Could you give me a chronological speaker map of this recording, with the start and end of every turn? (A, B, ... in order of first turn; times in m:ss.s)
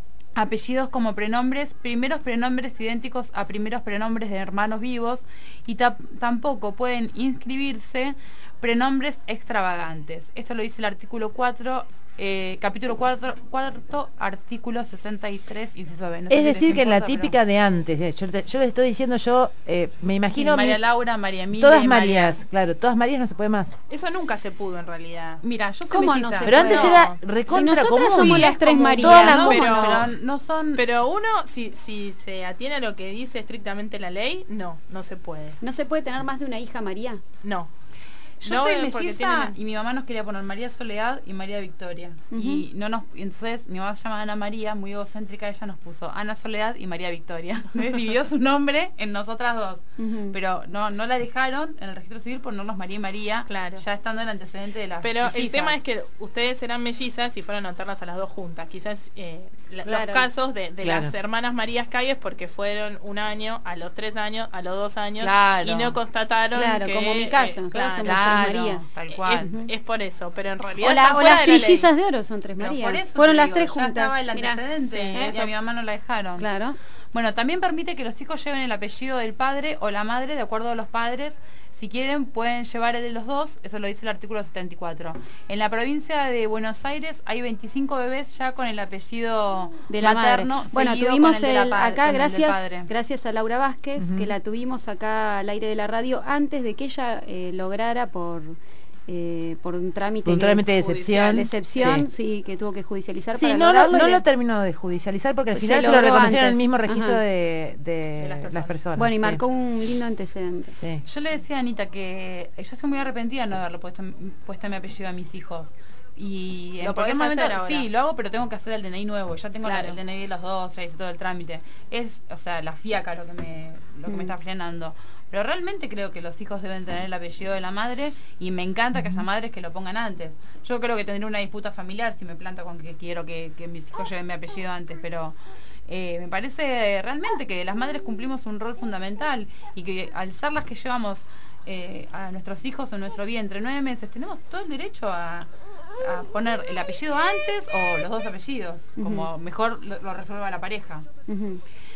0:00.3-0:17.3 A
0:16.3-0:20.8 B
0:20.3-0:22.4 A
0:21.5-0:23.8 B
0:23.9-0:25.4 C
0:25.4-0:26.9 A
0:25.9-0:30.0 D
0:26.4-0:30.0 B
0:26.6-0:27.2 C
0:28.2-0:30.1 C
0:29.0-0:30.8 A
0:30.7-0:35.6 C
0:35.6-0:37.2 D
0:37.4-0:37.7 C
0:38.4-0:55.8 A
0:38.4-0:39.6 C
0:42.3-0:42.6 D
0:50.0-0:50.3 D
0:53.5-0:53.8 C
0:55.0-1:11.9 C
0:59.8-1:00.3 D
1:00.8-1:01.1 B
1:05.2-1:06.0 A
1:06.5-1:08.8 D
1:08.0-1:09.5 A
1:10.8-1:14.6 D
1:12.6-1:16.4 A
1:14.8-1:15.5 C
1:16.4-1:16.8 D
1:17.1-1:32.9 A
1:29.9-1:38.6 D
1:34.0-1:34.3 B
1:39.1-1:44.2 D
1:40.2-1:42.1 B
1:40.7-1:41.9 C
1:43.4-1:49.4 B
1:45.5-1:47.2 D
1:48.2-1:48.8 C
1:49.0-1:50.8 D
1:51.0-2:15.3 A
1:56.8-1:57.9 C
1:59.6-2:00.0 C
2:04.1-2:04.3 D
2:08.9-2:09.2 B
2:15.9-2:25.5 A
2:26.0-2:31.1 A
2:29.0-2:29.3 D
2:31.3-2:31.6 D